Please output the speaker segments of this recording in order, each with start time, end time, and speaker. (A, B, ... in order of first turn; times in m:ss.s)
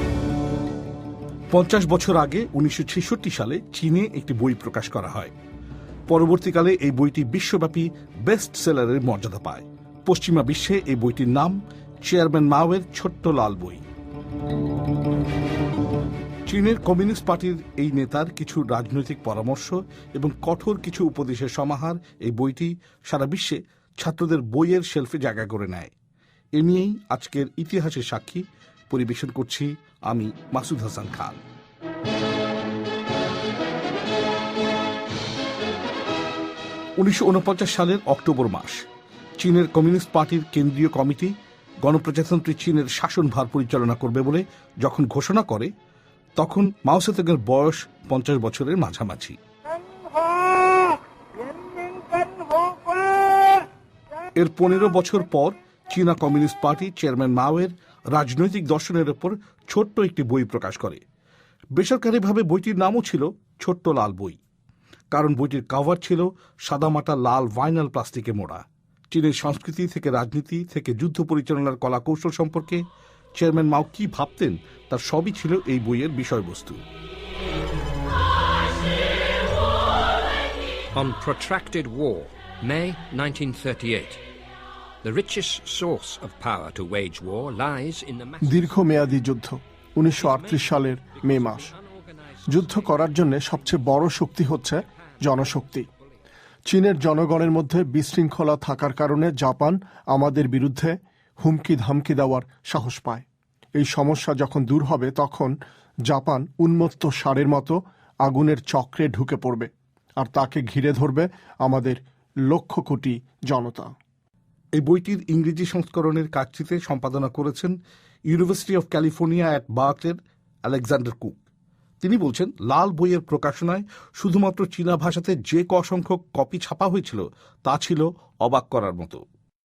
0:01.5-0:05.3 A
0:06.1-0:13.8 A
0:16.5-0:25.9 A
0:26.6-0:31.4 A
0:37.0-0:38.8 A
0:39.4-0:41.3 A
0:41.8-0:45.7 A
0:46.4-0:49.4 A
0:54.4-1:01.0 A
1:01.8-1:04.4 A
1:05.1-1:12.8 A
1:13.4-1:16.8 A
1:20.9-1:24.2 B
1:25.0-1:29.1 B
1:28.4-1:31.7 C
1:30.2-1:34.2 B
1:32.5-1:35.8 C
1:34.9-1:35.7 B
1:36.7-1:43.2 C
1:43.8-1:45.5 C
1:46.1-1:53.9 C
1:54.8-1:57.7 A
1:58.3-2:01.4 A
2:02.0-2:09.2 A